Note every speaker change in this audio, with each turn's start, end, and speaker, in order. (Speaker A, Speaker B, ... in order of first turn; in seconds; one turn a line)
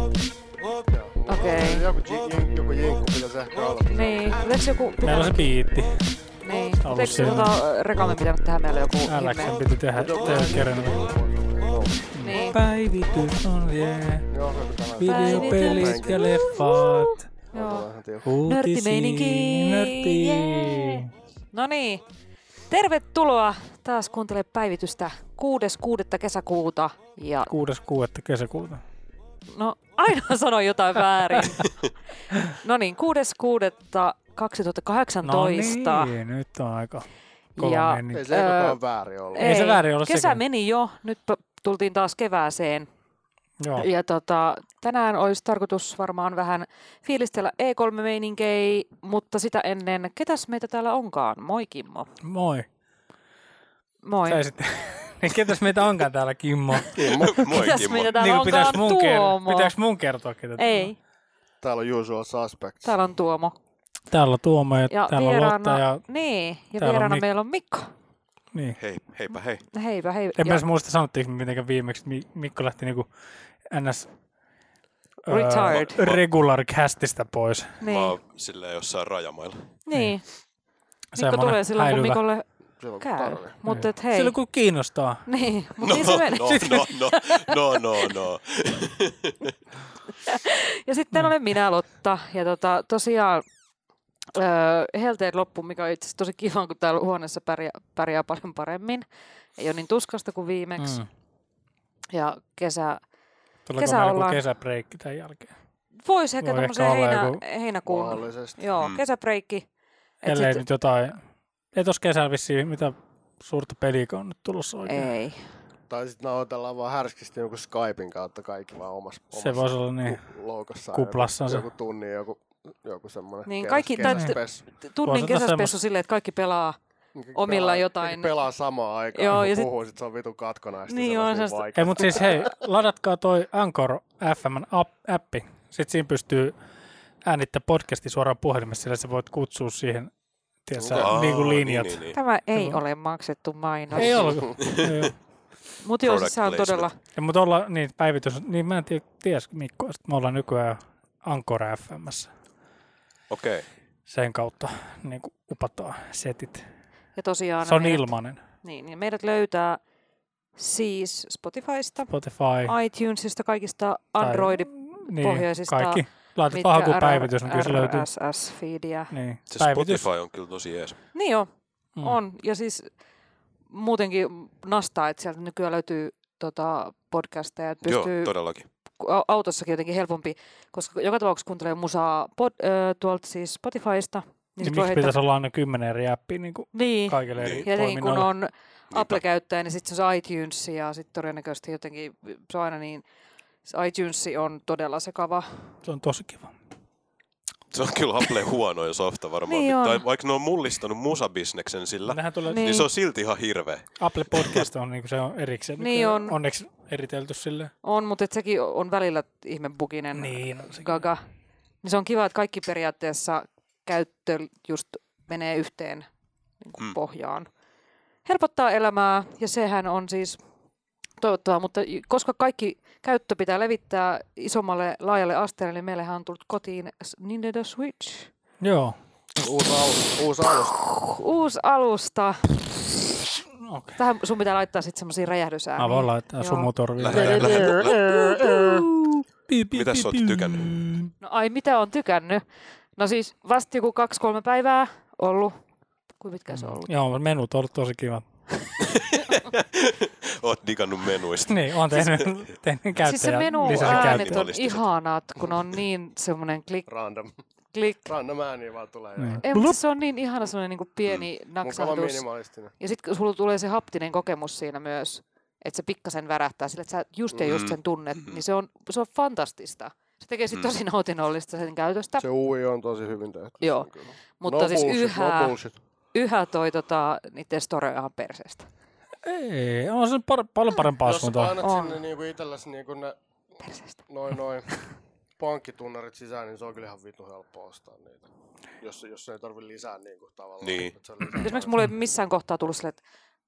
Speaker A: 0.9-4.5
Speaker B: 1.3-1.9
Speaker B: 3.9-5.5
Speaker C: 5.0-6.0
Speaker B: 6.4-9.6
Speaker C: 6.8-7.5
Speaker C: 9.0-11.0
Speaker A: 9.9-12.1
Speaker C: 12.1-14.3
Speaker B: 12.2-12.6
Speaker A: 14.3-16.5
Speaker C: 14.9-17.2
Speaker B: 15.1-17.9
Speaker A: 17.5-18.4
Speaker C: 18.2-21.1
Speaker B: 18.4-22.0
Speaker B: 22.7-27.5
Speaker C: 27.5-28.8
Speaker B: 29.5-31.7
Speaker B: 32.5-36.1
Speaker C: 35.2-37.1
Speaker B: 37.5-38.8
Speaker C: 37.6-38.3
Speaker A: 38.1-39.5
Speaker B: 39.3-42.9
Speaker C: 39.4-40.4
Speaker C: 43.6-43.9
Speaker B: 43.7-52.1
Speaker C: 52.2-52.7
Speaker B: 54.0-54.4
Speaker C: 54.2-60.9
Speaker A: 56.9-57.6
Speaker D: 57.2-58.8
Speaker B: 57.5-59.7
Speaker B: 60.5-61.0
Speaker A: 61.6-62.9
Speaker B: 62.8-63.5
Speaker C: 64.1-66.0
Speaker B: 64.9-67.9
Speaker C: 66.8-67.2
Speaker C: 68.5-68.8
Speaker D: 68.8-69.6
Speaker B: 69.7-70.6
Speaker C: 70.4-73.1
Speaker C: 73.7-74.1
Speaker C: 75.2-77.8
Speaker B: 75.3-76.0
Speaker D: 75.7-76.2
Speaker B: 77.8-78.2
Speaker D: 77.8-79.7
Speaker B: 79.8-80.2
Speaker C: 81.1-82.2
Speaker B: 81.1-82.5
Speaker A: 82.8-83.6
Speaker B: 83.0-84.3
Speaker C: 83.7-85.2
Speaker B: 85.2-88.1
Speaker D: 85.8-89.5
Speaker B: 90.2-93.4
Speaker B: 94.3-99.0
Speaker B: 99.6-101.0
Speaker C: 100.8-101.1
Speaker B: 102.1-103.0
Speaker C: 103.7-105.5
Speaker B: 103.8-104.4
Speaker B: 106.0-109.6
Speaker C: 106.4-107.4
Speaker A: 107.8-108.6
Speaker B: 110.2-110.6
Speaker C: 110.2-111.2
Speaker C: 111.7-115.1
Speaker B: 114.8-115.4
Speaker A: 115.9-124.6
Speaker C: 119.3-120.2
Speaker C: 120.9-121.7
Speaker B: 123.5-126.8
Speaker C: 124.0-124.3
Speaker C: 125.0-125.8
Speaker A: 127.1-132.6
Speaker B: 127.3-128.3
Speaker B: 129.1-129.7
Speaker B: 130.9-131.6
Speaker C: 131.7-136.6
Speaker C: 137.2-140.1
Speaker C: 140.7-142.8
Speaker A: 140.8-141.1
Speaker D: 140.9-142.2
Speaker B: 142.1-144.4
Speaker C: 143.9-145.1
Speaker D: 144.6-145.1
Speaker B: 145.8-146.9
Speaker D: 146.0-146.9
Speaker C: 147.1-152.3
Speaker D: 153.3-153.7
Speaker C: 154.1-156.6
Speaker B: 157.2-159.8
Speaker C: 157.6-158.4
Speaker B: 160.6-162.1
Speaker C: 162.1-162.7
Speaker B: 162.6-169.1
Speaker C: 164.2-168.1
Speaker C: 169.1-170.1
Speaker D: 169.5-171.0
Speaker B: 171.1-171.5
Speaker B: 172.0-172.9
Speaker B: 173.7-178.3
Speaker D: 177.8-178.7
Speaker B: 179.0-185.2
Speaker C: 184.6-188.3
Speaker B: 186.7-193.0
Speaker D: 187.4-187.7
Speaker D: 188.9-189.2
Speaker B: 193.6-195.7
Speaker C: 195.8-196.5
Speaker D: 197.7-204.7
Speaker B: 199.5-200.0
Speaker C: 202.1-202.6
Speaker B: 202.5-202.9
Speaker C: 204.0-207.7
Speaker B: 205.8-206.3
Speaker B: 207.8-211.2
Speaker C: 210.1-211.0
Speaker B: 211.8-216.1
Speaker B: 216.6-217.5
Speaker B: 218.2-220.4
Speaker B: 221.2-228.3
Speaker C: 228.6-229.0
Speaker A: 229.4-230.8
Speaker B: 230.5-232.9
Speaker C: 233.6-234.0
Speaker B: 233.9-236.7
Speaker C: 235.8-241.1
Speaker D: 237.0-238.0
Speaker A: 237.1-238.9
Speaker D: 239.7-240.8
Speaker B: 241.2-242.4
Speaker B: 243.0-245.6
Speaker B: 246.2-246.9
Speaker C: 246.5-248.2
Speaker D: 248.8-252.5
Speaker C: 251.5-254.4
Speaker B: 253.0-256.9
Speaker D: 253.6-254.9
Speaker A: 256.9-257.3
Speaker B: 257.7-258.1
Speaker A: 258.0-259.5
Speaker C: 259.2-259.8
Speaker B: 259.4-262.2
Speaker A: 261.6-262.7
Speaker B: 262.8-272.2
Speaker D: 267.4-268.4
Speaker A: 272.2-275.7
Speaker B: 273.6-275.6
Speaker B: 276.1-278.7
Speaker C: 279.2-281.6
Speaker A: 281.0-283.1
Speaker B: 281.6-282.0
Speaker B: 283.6-284.0
Speaker A: 284.1-284.7
Speaker A: 285.4-291.8
Speaker D: 290.6-290.9
Speaker B: 291.3-293.0